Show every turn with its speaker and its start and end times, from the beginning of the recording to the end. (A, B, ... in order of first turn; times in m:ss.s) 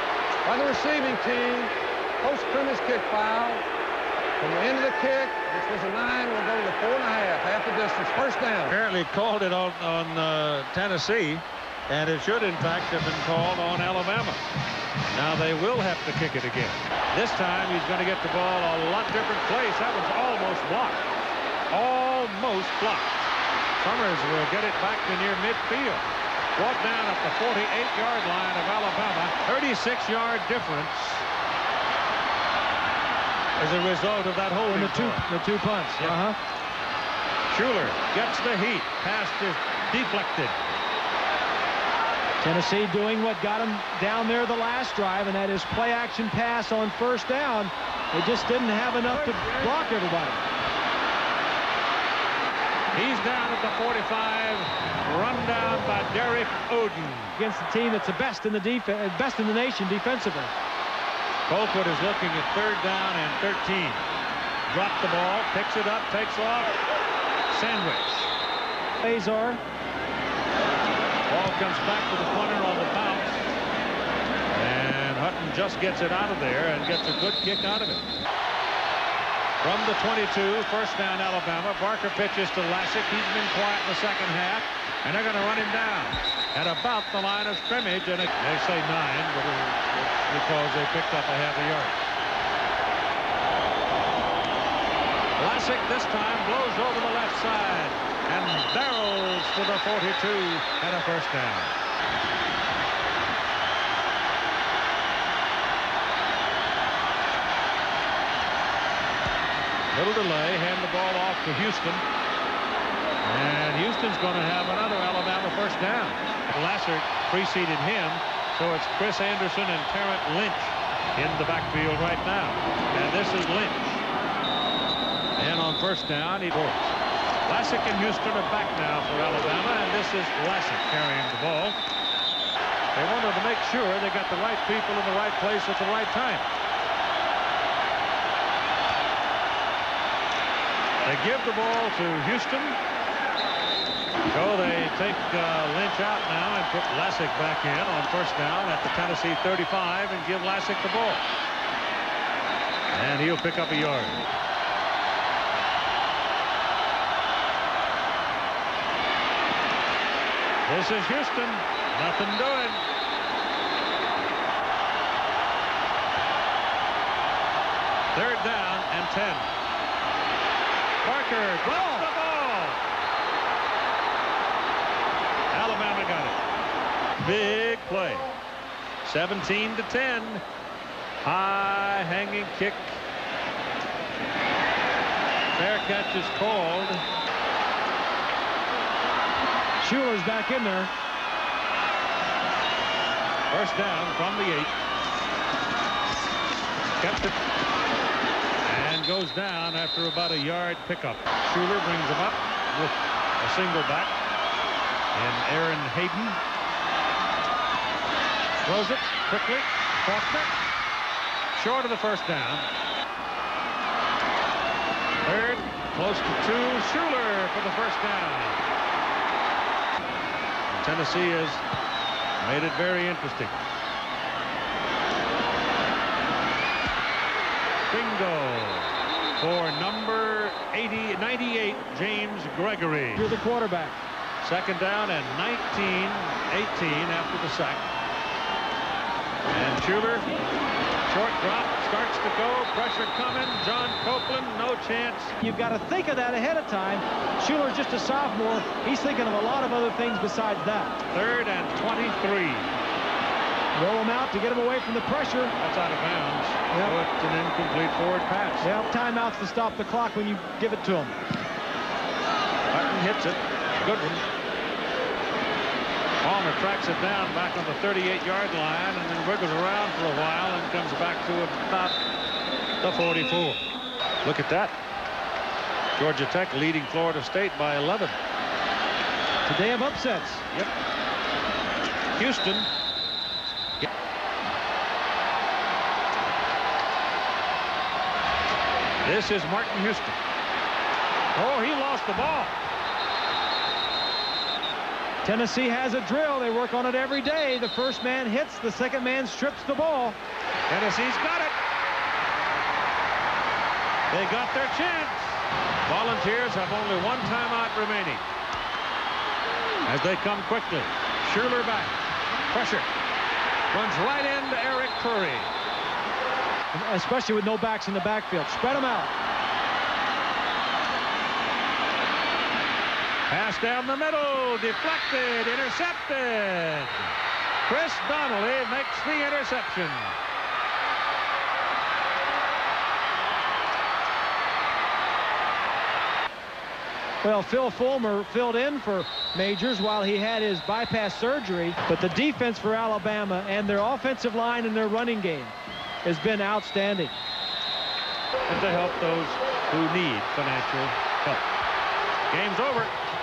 0:00.4-0:03.6 A
0:04.4-0:08.8 A
0:08.7-0:14.4 B
0:15.1-0:21.2 B
0:21.7-0:31.2 B
0:33.6-0:35.2 B
0:34.7-0:36.4 C
0:37.5-0:40.7 B
0:42.4-0:50.4 C
0:52.9-0:57.4 B
0:57.4-1:00.5 C
1:01.5-1:04.0 B
1:04.7-1:06.8 B
1:07.5-1:08.3 B
1:09.0-1:09.6 C
1:11.3-1:13.6 B
1:14.5-1:18.0 B
1:19.6-1:32.1 B
1:35.4-1:41.7 B
1:49.9-1:52.0 B
1:53.2-2:04.0 B
2:05.4-2:11.8 B
2:12.9-2:16.4 B
2:21.0-2:22.8 B
2:24.2-2:31.2 B
2:32.9-2:34.3 B
2:40.6-2:42.8 B
2:48.1-2:49.5 B
2:51.0-2:52.8 B
2:51.8-2:52.0 C
2:55.5-2:56.4 B
2:57.2-2:58.3 B
2:59.0-3:00.4 B
3:01.2-3:03.0 B
3:05.5-3:07.0 B
3:09.8-3:10.9 C
3:13.5-3:14.7 B
3:17.0-3:17.4 B
3:18.6-3:24.1 B
3:25.1-3:26.4 B
3:28.6-3:30.5 B
3:31.5-3:32.6 B
3:35.2-3:38.6 B
3:40.7-3:41.6 B
3:42.4-3:43.6 B
3:47.9-3:53.3 B
3:53.2-3:54.0 C
3:54.4-3:57.8 B
3:59.5-4:00.3 B
4:01.1-4:05.3 B
4:05.4-4:11.0 C
4:11.1-4:12.7 B
4:13.7-4:15.5 C
4:15.6-4:18.7 B
4:16.7-4:17.0 C
4:18.6-4:21.2 C
4:22.7-4:24.2 B
4:26.2-4:32.0 B
4:32.8-4:33.6 B
4:34.2-4:34.7 B
4:36.0-4:38.1 B
4:39.4-4:40.4 C
4:42.1-4:42.7 B
4:49.0-4:50.2 B
4:51.3-4:52.6 B
4:55.2-5:00.2 C
5:00.7-5:01.5 B
5:04.1-5:08.2 B
5:09.8-5:12.0 B
5:12.5-5:12.9 B
5:13.7-5:15.5 B
5:16.7-5:19.1 C
5:23.3-5:27.1 B
5:27.6-5:30.2 B
5:37.2-5:47.1 C
5:48.5-5:51.4 B
5:52.3-5:52.9 B